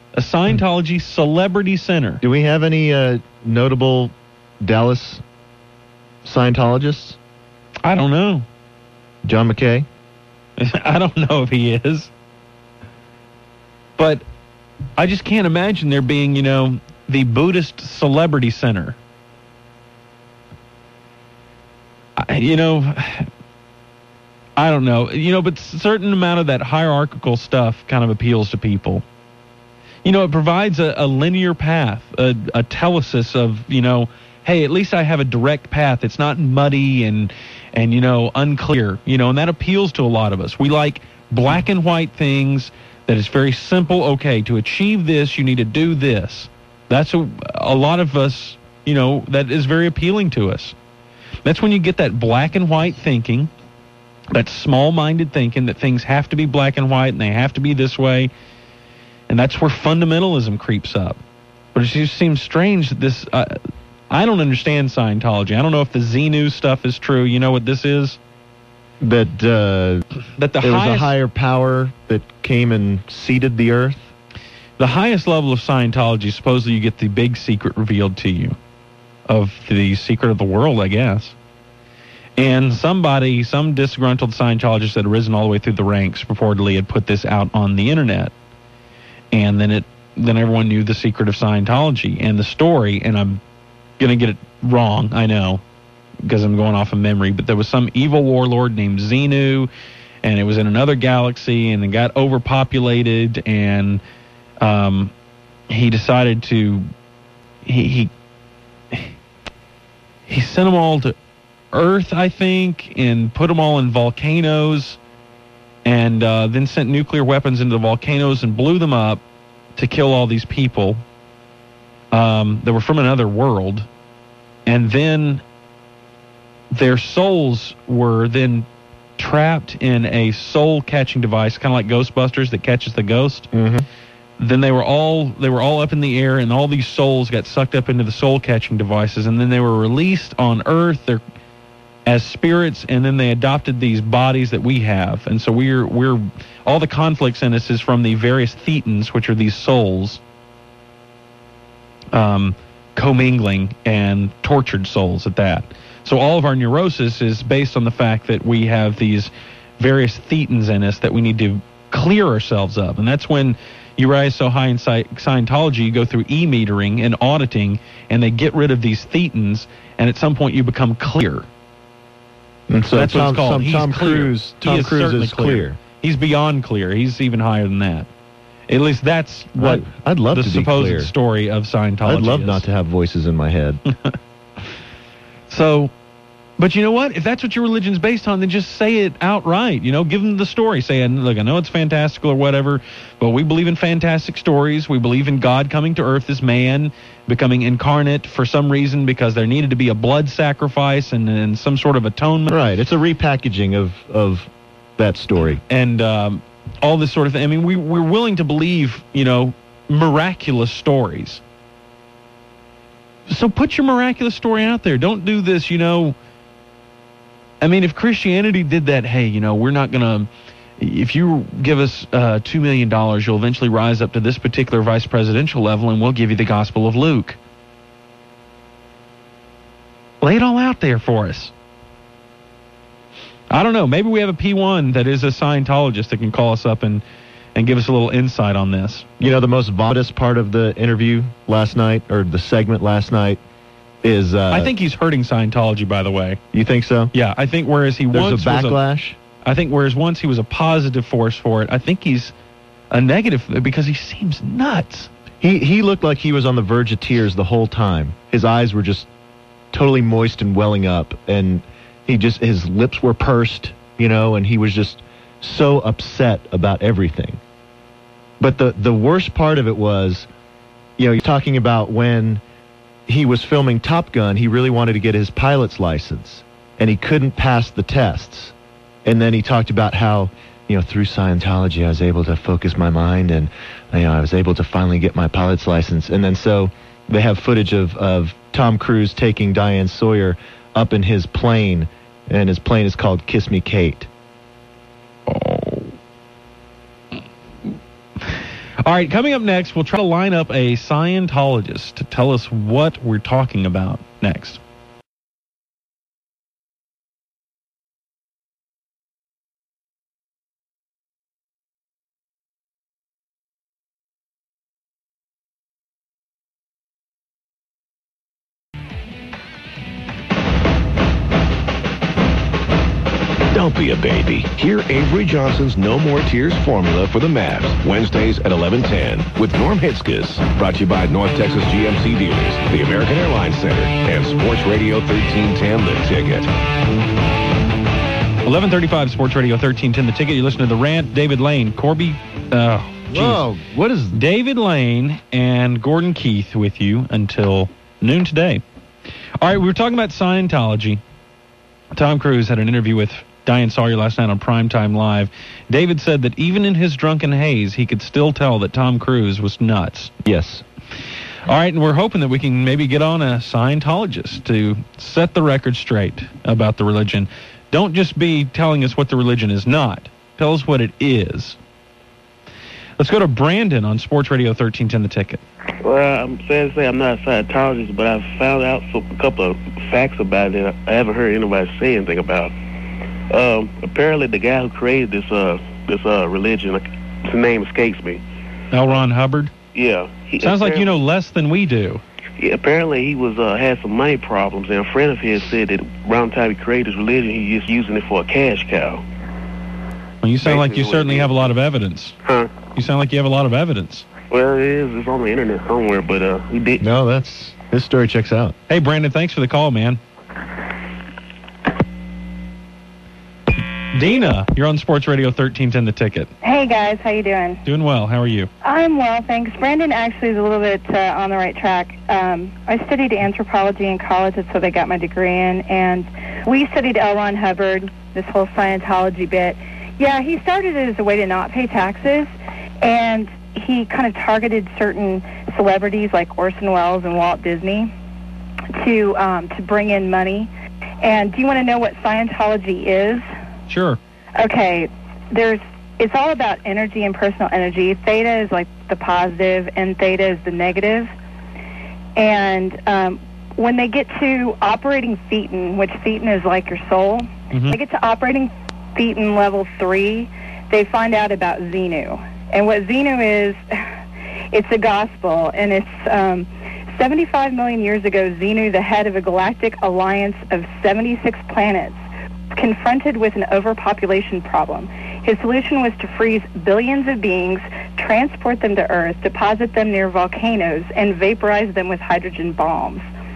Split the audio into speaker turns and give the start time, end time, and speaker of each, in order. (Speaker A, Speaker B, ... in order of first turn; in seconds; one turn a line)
Speaker A: 0.1-2.2
Speaker B: 2.2-5.2
Speaker B: 6.2-7.2
Speaker A: 7.8-8.4
Speaker B: 9.2-9.9
Speaker A: 10.6-12.1
Speaker A: 14.0-14.2
Speaker A: 15.0-19.0
Speaker A: 22.2-23.3
Speaker A: 24.6-29.0
Speaker A: 30.0-50.7
Speaker A: 51.4-53.5
Speaker A: 54.3-58.3
Speaker A: 59.3-61.2
Speaker A: 61.7-63.6
Speaker A: 64.1-68.2
Speaker B: 69.0-70.0
Speaker A: 70.4-71.1
Speaker B: 70.6-74.1
Speaker A: 74.8-78.5
Speaker A: 79.3-81.3
Speaker A: 82.4-88.3
Speaker A: 89.3-93.4
Speaker A: 94.0-95.6
Speaker A: 96.2-99.7
Speaker A: 100.2-104.0
Speaker A: 104.6-105.1
Speaker A: 105.7-106.9
Speaker A: 107.6-108.1
Speaker A: 110.3-111.1
Speaker A: 111.7-115.0
Speaker A: 115.8-119.2
Speaker A: 119.8-121.0
Speaker A: 122.1-123.8
Speaker A: 124.7-125.4
Speaker A: 126.7-128.7
Speaker A: 129.2-133.5
Speaker B: 133.5-133.8
Speaker A: 134.4-141.2
Speaker A: 142.1-150.2
Speaker A: 152.1-171.4
Speaker B: 172.7-175.8
Speaker A: 172.9-178.1
Speaker A: 178.7-182.6
Speaker B: 179.6-181.1
Speaker B: 182.0-183.8
Speaker A: 185.5-185.9
Speaker A: 186.6-202.5
Speaker B: 202.5-205.6
Speaker A: 205.7-211.4
Speaker A: 213.3-216.2
Speaker A: 217.6-220.3
Speaker A: 220.8-227.4
Speaker A: 230.2-231.5
Speaker A: 233.5-237.0
Speaker A: 237.5-239.0
Speaker B: 239.2-243.4
Speaker B: 244.0-244.7
Speaker A: 244.5-246.4
Speaker B: 246.5-247.1
Speaker A: 247.1-248.8
Speaker B: 248.1-249.2
Speaker A: 249.4-252.3
Speaker A: 252.9-255.1
Speaker B: 255.4-259.1
Speaker B: 259.7-267.4
Speaker B: 268.4-270.3
Speaker B: 271.0-272.4
Speaker B: 273.1-278.5
Speaker B: 279.0-294.1
Speaker A: 295.3-295.9
Speaker A: 297.7-298.3
Speaker A: 298.8-304.6
Speaker C: 323.5-336.5
Speaker A: 338.4-343.5
Speaker B: 343.1-344.2
Speaker A: 344.1-348.6
Speaker A: 349.4-351.0
Speaker A: 351.9-360.1
Speaker B: 360.2-360.6
Speaker A: 361.4-371.6
Speaker A: 373.0-375.4
Speaker D: 375.8-382.5
Speaker D: 383.3-388.2
Speaker A: 388.7-389.5
Speaker D: 389.7-390.9
Speaker A: 390.4-392.0
Speaker D: 392.4-399.0
Speaker A: 400.2-402.2
Speaker D: 400.4-401.5
Speaker D: 402.2-402.5
Speaker A: 402.7-404.1
Speaker D: 404.3-406.9
Speaker B: 406.8-408.5
Speaker A: 408.7-410.0
Speaker A: 413.9-416.3
Speaker E: 416.4-417.6
Speaker A: 417.6-418.5
Speaker E: 418.6-432.3
Speaker E: 432.8-437.9
Speaker E: 438.7-440.5
Speaker E: 441.0-443.2
Speaker A: 443.7-444.0
Speaker E: 444.4-451.1
Speaker E: 452.1-463.8
Speaker A: 457.5-457.8
Speaker E: 464.5-472.0
Speaker E: 472.5-483.1